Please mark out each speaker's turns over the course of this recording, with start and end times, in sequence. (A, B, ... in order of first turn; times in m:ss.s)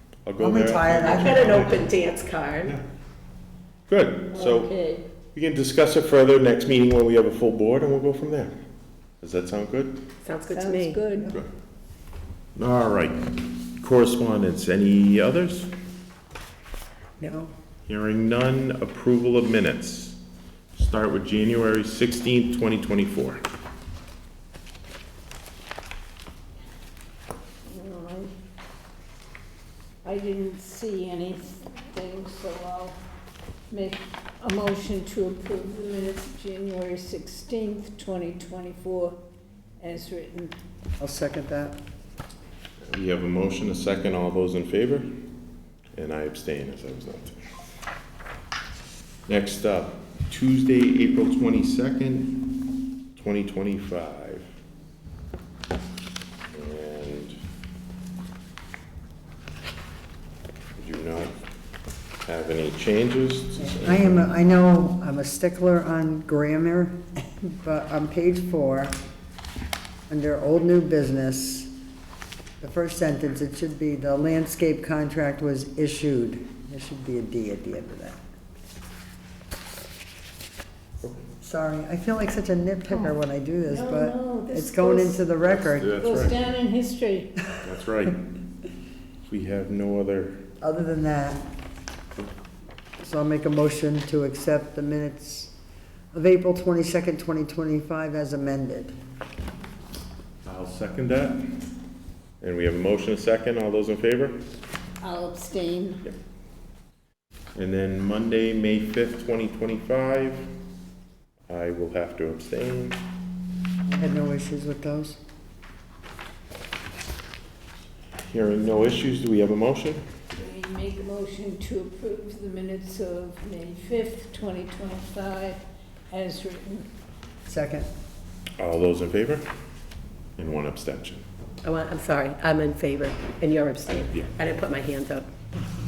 0:00.3-0:01.9 A
0:00.4-0:01.7 B
0:01.0-0:02.7 C
0:03.9-0:04.7 A
0:04.3-0:05.0 D
0:05.4-0:08.5 A
0:09.2-0:10.0 A
0:10.2-0:11.0 C
0:10.5-0:11.3 D
0:11.2-0:11.5 A
0:12.6-0:15.7 A
0:17.2-0:17.5 B
0:17.9-0:20.2 A
0:20.8-0:23.4 A
0:27.6-0:28.3 D
0:30.0-0:33.0 D
0:33.7-0:39.2 D
0:39.8-0:40.5 D
0:41.0-0:41.8 B
0:42.9-0:45.1 A
0:46.0-0:47.4 A
0:49.3-0:52.5 A
0:53.2-0:54.4 A
0:56.5-0:57.4 A
1:00.8-1:01.3 A
1:02.2-1:04.3 A
1:03.6-1:09.0 B
1:10.1-1:11.7 B
1:12.6-1:18.2 B
1:21.4-1:25.9 B
1:23.7-1:25.2 D
1:25.4-1:26.5 A
1:26.0-1:27.4 D
1:27.6-1:28.2 A
1:29.2-1:30.4 A
1:30.6-1:31.4 B
1:33.0-1:35.5 B
1:36.1-1:38.9 B
1:40.4-1:41.4 A
1:42.4-1:44.4 A
1:45.0-1:46.0 D
1:47.6-1:50.5 A
1:51.5-1:53.0 A
1:53.9-1:55.2 B
1:58.2-2:00.0 A
2:00.3-2:06.9 D
2:07.5-2:07.9 B
2:08.6-2:09.4 A
2:10.4-2:11.2 A
2:11.6-2:15.2 C